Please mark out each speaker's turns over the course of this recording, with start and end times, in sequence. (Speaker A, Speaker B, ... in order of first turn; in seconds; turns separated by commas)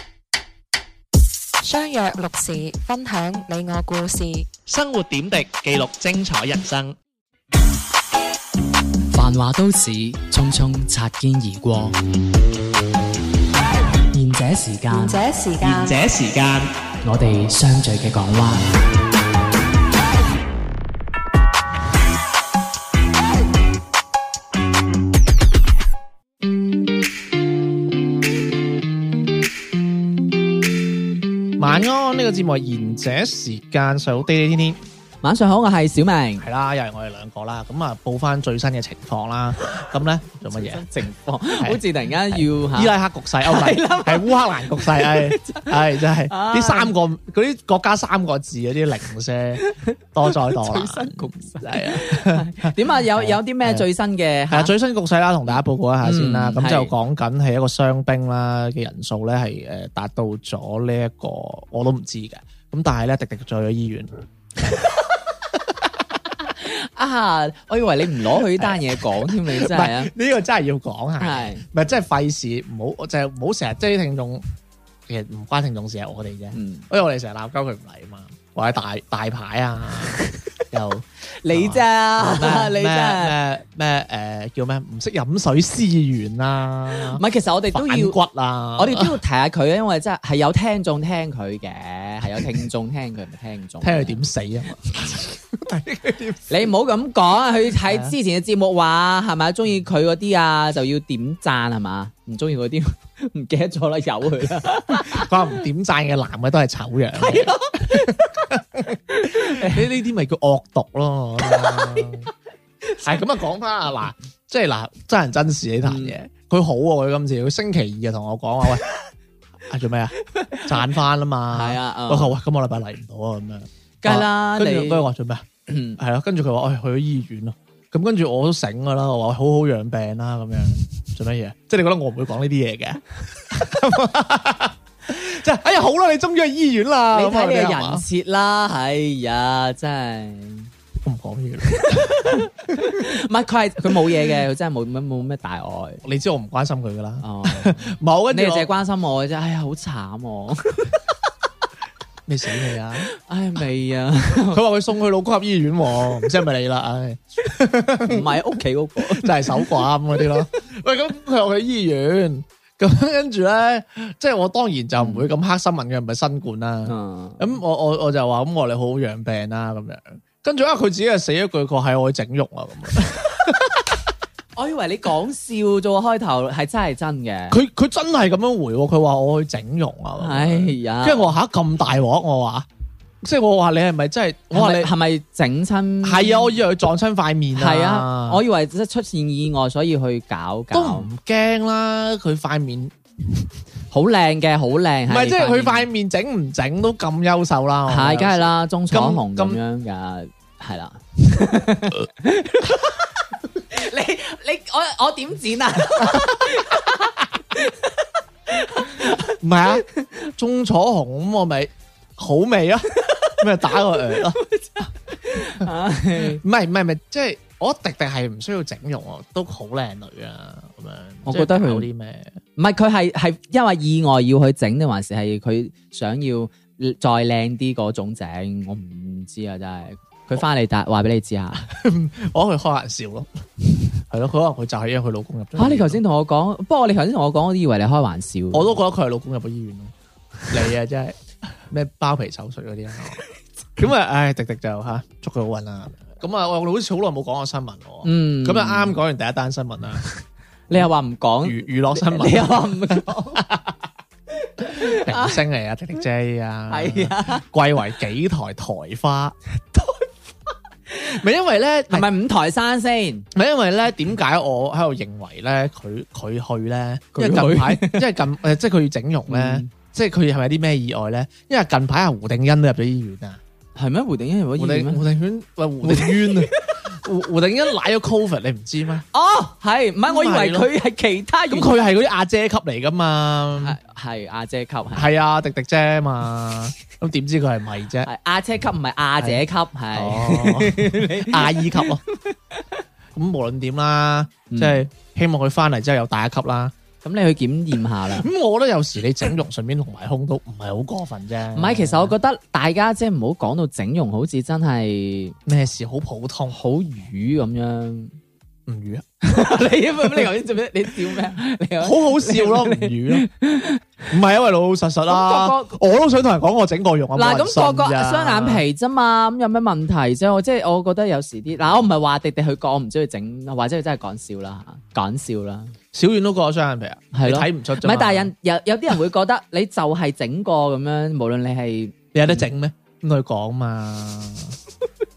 Speaker A: 1.6-4.5, Speaker B: 4.7-7.0, Speaker C: 9.1-11.9, Speaker C: 14.1-15.2, Speaker A: 14.9-16.0, Speaker B: 15.6-16.7, Speaker C: 17.0-18.6, Speaker B: 31.6-34.8, Speaker C: 35.2-36.5, Speaker B: 36.4-40.8, Speaker C: 40.5-46.9, Speaker B: 42.3-53.8, Speaker C: 50.3-54.7, Speaker B: 54.5-64.1, Speaker C: 56.0-56.9, Speaker C: 66.4-70.1, Speaker B: 68.3-74.4, Speaker C: 71.2-71.6, Speaker B: 75.1-80.2, Speaker C: 76.5-76.8, Speaker B: 80.7-89.2, Speaker C: 81.4-83.3, Speaker C: 87.1-88.1, Speaker C: 88.8-94.2, Speaker B: 93.8-96.5, Speaker C: 96.5-105.3, Speaker B: 97.8-98.1, Speaker B: 105.0-112.3, Speaker C: 107.2-108.5, Speaker C: 109.1-109.9, Speaker C: 111.4-112.1, Speaker C: 112.9-113.1, Speaker B: 113.0-118.8, Speaker C: 115.8-116.2, Speaker B: 119.7-125.4, Speaker C: 120.3-120.7, Speaker C: 121.5-122.3, Speaker C: 124.0-125.1, Speaker C: 125.7-126.0, Speaker B: 126.0-138.0, Speaker C: 137.1-140.7, Speaker B: 141.0-143.1, Speaker C: 141.7-146.0, Speaker B: 146.0-148.7, Speaker C: 147.2-151.2, Speaker B: 152.3-153.1, Speaker C: 153.1-154.6, Speaker B: 154.3-158.4, Speaker C: 158.0-160.5, Speaker B: 159.0-174.0, Speaker C: 165.0-165.3, Speaker C: 166.9-167.4, Speaker C: 174.6-177.6, Speaker B: 177.5-182.7, Speaker C: 180.2-181.3, Speaker B: 183.2-184.9, Speaker C: 184.5-186.5, Speaker B: 186.0-188.4, Speaker C: 187.5-191.1, Speaker B: 190.7-192.9, Speaker C: 193.9-195.9, Speaker B: 195.1-199.6, Speaker C: 197.9-209.3, Speaker B: 209.4-214.4, Speaker C: 212.9-216.4, Speaker B: 216.1-222.3, Speaker C: 221.2-221.8, Speaker C: 222.6-231.7, Speaker B: 231.6-233.3, Speaker B: 234.1-236.0, Speaker C: 235.6-238.7, Speaker B: 238.5-239.9, Speaker B: 240.5-243.2, Speaker B: 243.8-250.1, Speaker C: 248.0-249.0, Speaker C: 250.7-253.4, Speaker B: 251.4-253.8, Speaker C: 254.4-255.4, Speaker B: 254.6-259.3, Speaker C: 256.7-257.4, Speaker C: 259.7-260.1, Speaker B: 261.0-262.1, Speaker C: 261.9-263.2, Speaker B: 263.3-273.4, Speaker C: 267.1-268.1, Speaker C: 269.3-269.7, Speaker C: 273.8-275.0, Speaker B: 274.6-279.0, Speaker C: 275.8-276.8, Speaker C: 279.1-281.8, Speaker B: 280.1-280.7, Speaker B: 281.5-283.8, Speaker C: 283.6-285.1, Speaker B: 284.9-288.1, Speaker C: 288.0-292.8, Speaker B: 289.9-292.0, Speaker B: 293.1-296.7, Speaker C: 294.5-294.8, Speaker C: 297.0-298.3, Speaker B: 298.1-302.1, Speaker C: 301.5-305.4, Speaker B: 305.4-306.6, Speaker C: 306.5-308.1, Speaker B: 308.7-309.1, Speaker C: 309.2-313.8, Speaker B: 311.8-313.3, Speaker B: 314.1-318.6, Speaker C: 315.1-315.8, Speaker C: 317.1-325.7, Speaker B: 325.9-328.3, Speaker C: 327.1-332.4, Speaker B: 332.1-334.5